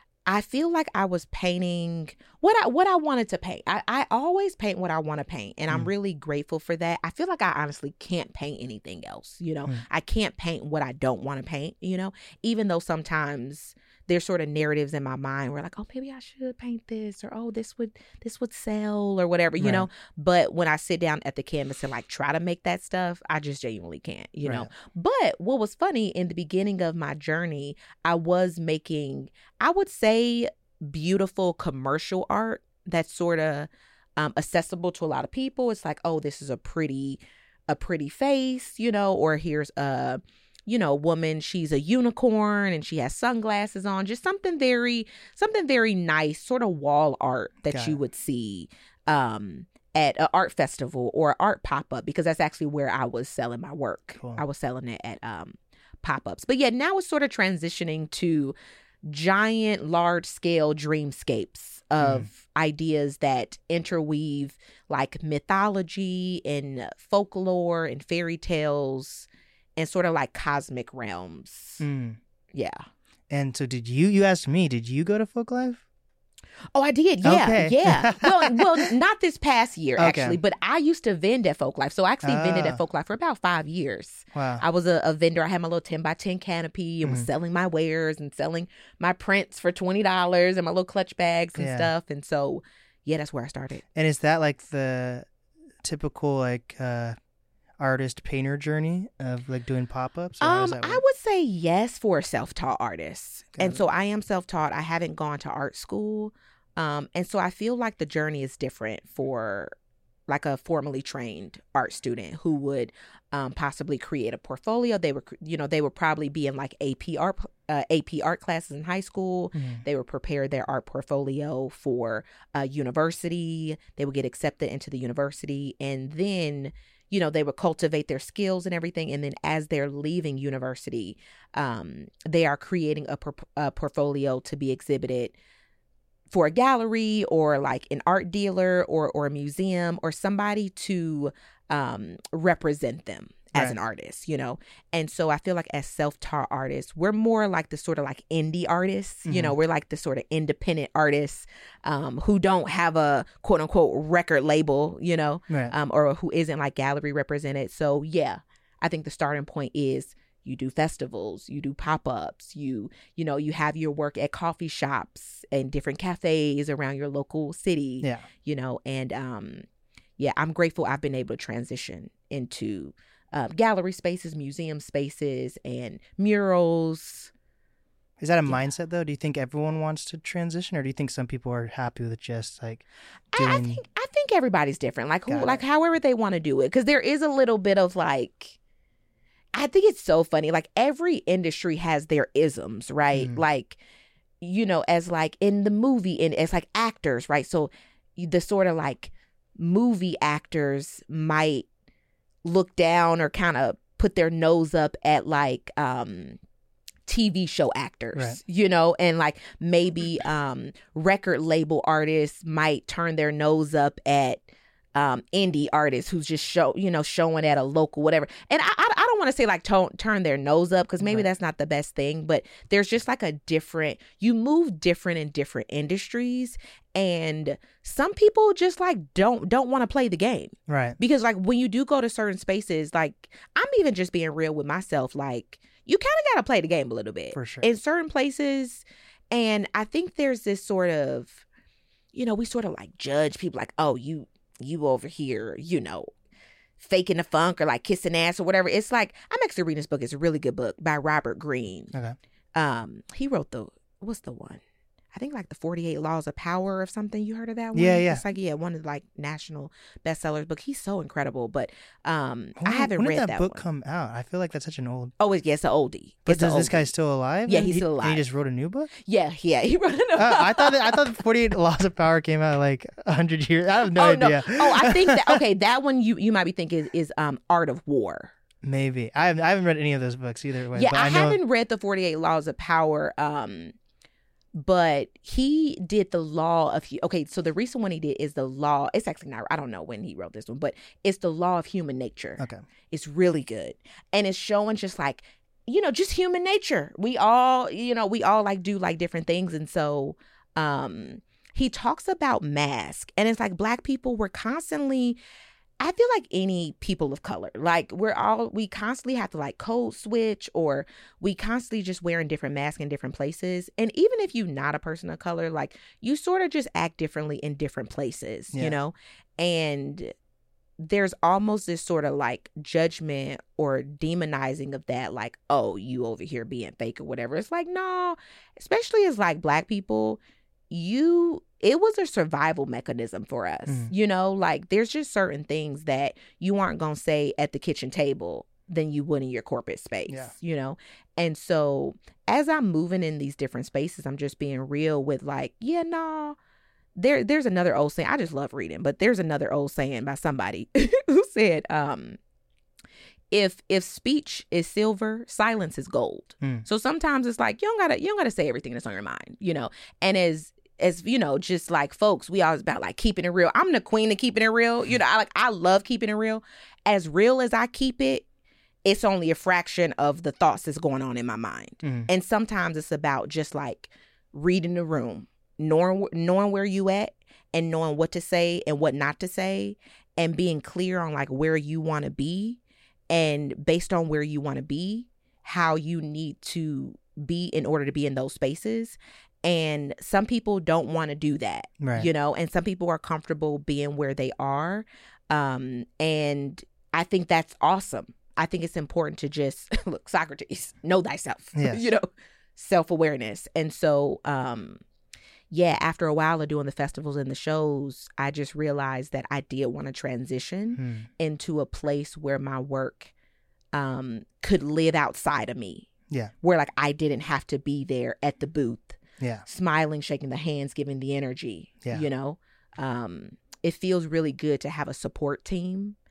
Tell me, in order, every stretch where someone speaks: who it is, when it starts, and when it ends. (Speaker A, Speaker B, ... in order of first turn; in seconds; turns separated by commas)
Speaker A: 0.3-71.8, Speaker B: 19.6-19.9, Speaker B: 24.4-24.7, Speaker B: 47.7-48.0, Speaker B: 62.0-62.3, Speaker B: 71.8-72.2, Speaker A: 72.5-72.8, Speaker B: 73.3-75.8, Speaker A: 76.7-93.8, Speaker B: 77.2-78.9, Speaker B: 80.0-80.4, Speaker B: 82.2-82.8, Speaker B: 84.3-84.6, Speaker B: 91.5-91.9, Speaker B: 93.9-95.2, Speaker B: 95.8-97.2, Speaker B: 97.8-101.0, Speaker A: 100.4-109.7, Speaker B: 103.5-103.8, Speaker A: 110.3-135.3, Speaker B: 119.5-119.8, Speaker A: 136.3-169.6, Speaker B: 149.2-149.5, Speaker B: 168.0-168.3, Speaker A: 170.2-177.3, Speaker B: 178.2-183.8, Speaker A: 183.3-188.6, Speaker B: 185.3-185.6, Speaker A: 189.5-193.8, Speaker B: 193.1-193.4, Speaker A: 194.4-201.7, Speaker A: 202.4-206.4, Speaker A: 207.1-241.4, Speaker B: 208.1-208.4, Speaker B: 230.7-231.0, Speaker B: 237.3-237.7, Speaker A: 242.1-246.1, Speaker A: 246.8-251.9, Speaker A: 252.5-254.6, Speaker A: 255.1-263.6, Speaker B: 257.7-258.2, Speaker B: 262.6-265.1, Speaker A: 265.2-266.9, Speaker B: 266.2-268.9, Speaker A: 267.5-268.2, Speaker A: 269.0-271.1, Speaker B: 270.1-275.4, Speaker A: 273.9-278.3, Speaker B: 278.6-281.4, Speaker A: 280.7-283.7, Speaker A: 284.5-305.2, Speaker B: 292.4-292.6, Speaker A: 305.8-320.1, Speaker A: 320.8-346.4, Speaker B: 333.7-333.9, Speaker B: 340.1-340.3, Speaker A: 346.9-352.2, Speaker A: 353.3-368.2, Speaker A: 368.8-404.8, Speaker B: 371.8-372.1, Speaker B: 391.8-392.1, Speaker B: 401.6-401.9, Speaker A: 405.5-413.1, Speaker B: 410.8-411.1, Speaker A: 413.7-415.9, Speaker A: 416.4-426.0, Speaker B: 419.2-419.4